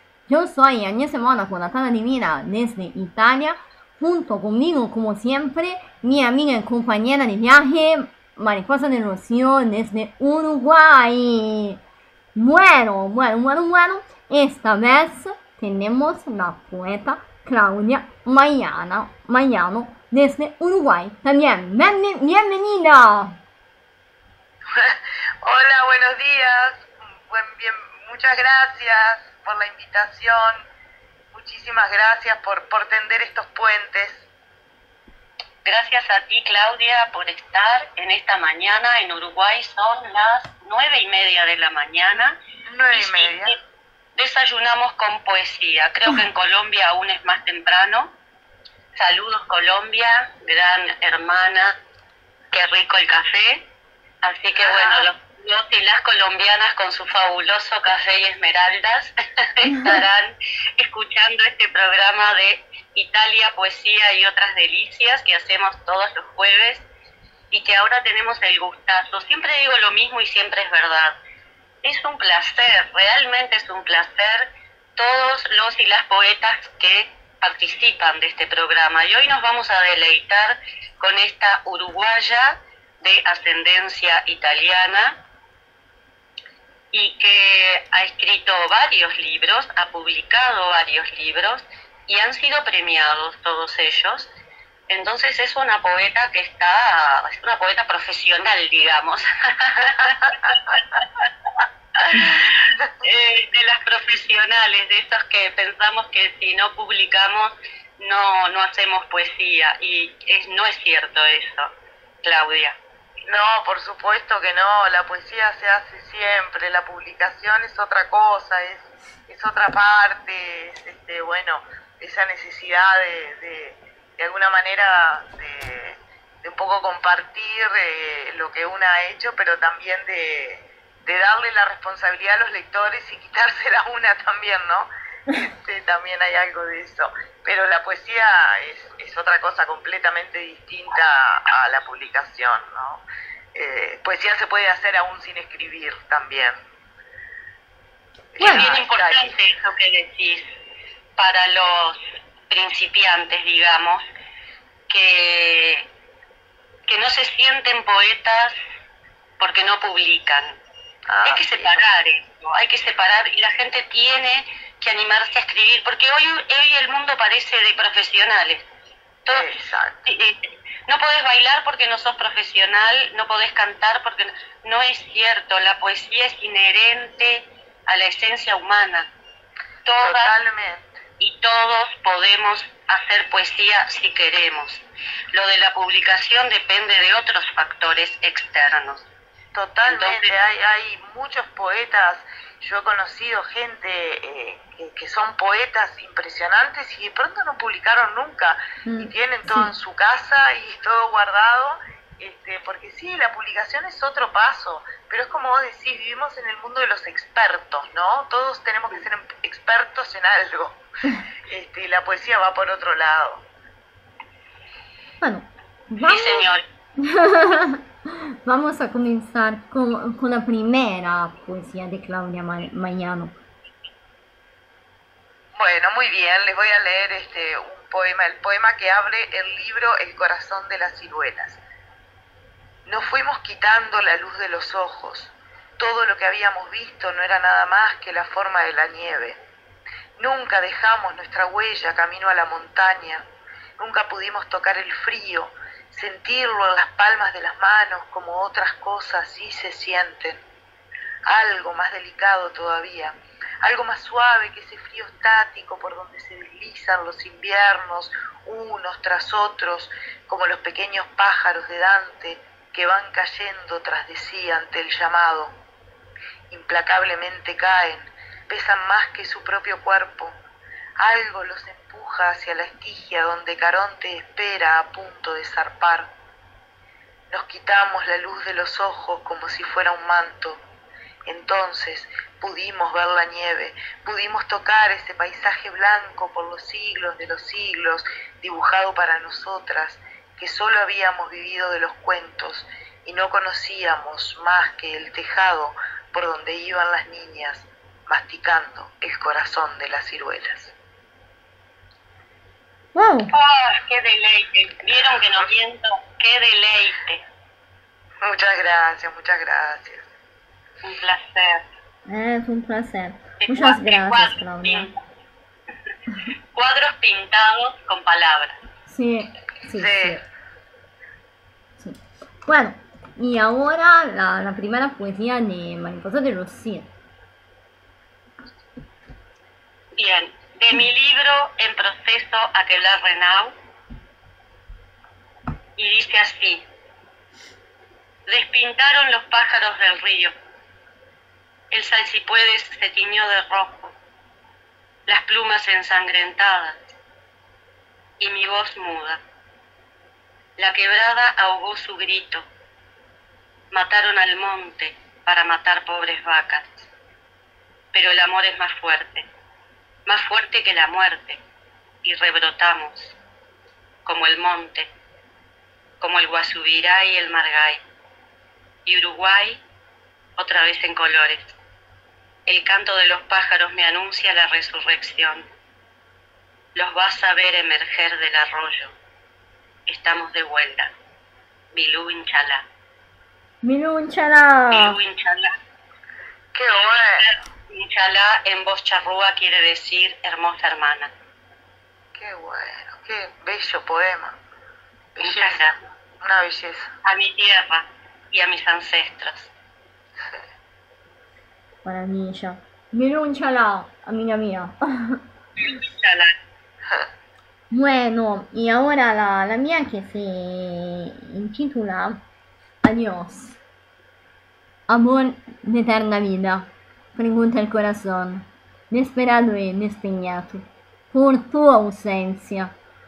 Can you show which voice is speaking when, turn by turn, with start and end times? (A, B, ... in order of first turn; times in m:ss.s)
0:00.3-0:11.8 A
0:12.4-0:23.4 A
0:24.7-0:30.6 B
0:31.3-0:34.3 B
0:35.6-0:42.4 C
0:42.7-0:43.6 B
0:42.9-0:43.6 C
0:44.2-0:48.1 C
0:49.0-0:51.7 C
0:52.5-0:53.6 C
0:54.2-1:06.9 C
0:54.6-0:55.1 B
1:07.5-1:11.2 C
1:11.8-1:25.2 C
1:26.9-1:34.3 C
1:34.9-1:41.3 C
1:42.0-1:51.7 C
1:52.2-1:52.8 C
1:53.3-2:14.9 B
2:15.5-2:23.0 B
2:23.6-2:26.6 B
2:28.4-2:29.4 B
2:28.4-2:28.7 A
2:28.4-2:30.4 C
2:31.2-2:34.0 C
2:34.9-2:35.9 C
2:36.9-2:38.6 C
2:39.4-2:40.6 C
2:41.1-2:41.9 B
2:41.3-2:48.6 C
2:49.3-2:50.0 B
2:50.1-2:50.4 C
2:50.9-2:59.1 C
2:59.8-3:00.4 C
3:00.0-3:01.0 B
3:01.2-3:09.1 C
3:09.5-3:30.8 B
3:09.8-3:10.3 C
3:18.9-3:19.7 A
3:31.5-3:33.4 B
3:35.2-3:36.5 A
3:36.0-3:36.6 C
3:37.0-3:37.8 A
3:38.4-3:43.4 A
3:45.6-3:51.6 B
3:52.8-3:59.4 B
4:00.2-4:03.3 B
4:03.8-4:10.4 B
4:11.3-4:25.6 B
4:26.5-4:30.4 B
4:31.0-4:36.1 B
4:37.3-4:40.6 B
4:41.3-5:00.8 B
5:02.9-5:03.3 A
5:03.3-5:07.2 C
5:08.2-5:10.1 B
5:10.8-5:11.6 C
5:12.1-5:14.9 A
5:13.4-5:15.0 C
5:16.5-5:18.6 C
5:18.9-5:20.2 A
5:19.8-5:20.2 B
5:21.8-5:26.9 A
5:30.0-5:33.5 C
5:35.8-5:36.6 C
5:38.3-5:40.3 C
5:41.7-5:43.9 C
5:45.1-5:46.9 C
5:48.2-5:49.2 C
5:50.6-5:52.4 C
5:53.7-5:56.9 C
5:57.9-5:59.3 C
6:00.1-6:01.4 C
6:02.0-6:03.2 C
6:04.0-6:04.9 C
6:06.0-6:07.8 C
6:08.9-6:09.6 C
6:10.4-6:11.6 C
6:12.5-6:15.4 C
6:16.8-6:18.9 C
6:19.9-6:20.9 C
6:21.7-6:22.6 C
6:23.6-6:25.0 A
6:24.7-6:25.5 C
6:26.5-6:27.3 B
6:26.7-6:31.1 C
6:32.2-6:34.4 B
6:35.2-6:35.6 B
6:35.2-6:35.8 C
6:36.2-6:36.9 B
6:37.0-6:39.5 C
6:41.8-6:45.2 A
6:45.6-6:46.3 C
6:47.7-6:52.2 A
6:52.8-6:53.6 A
6:54.9-7:02.7 A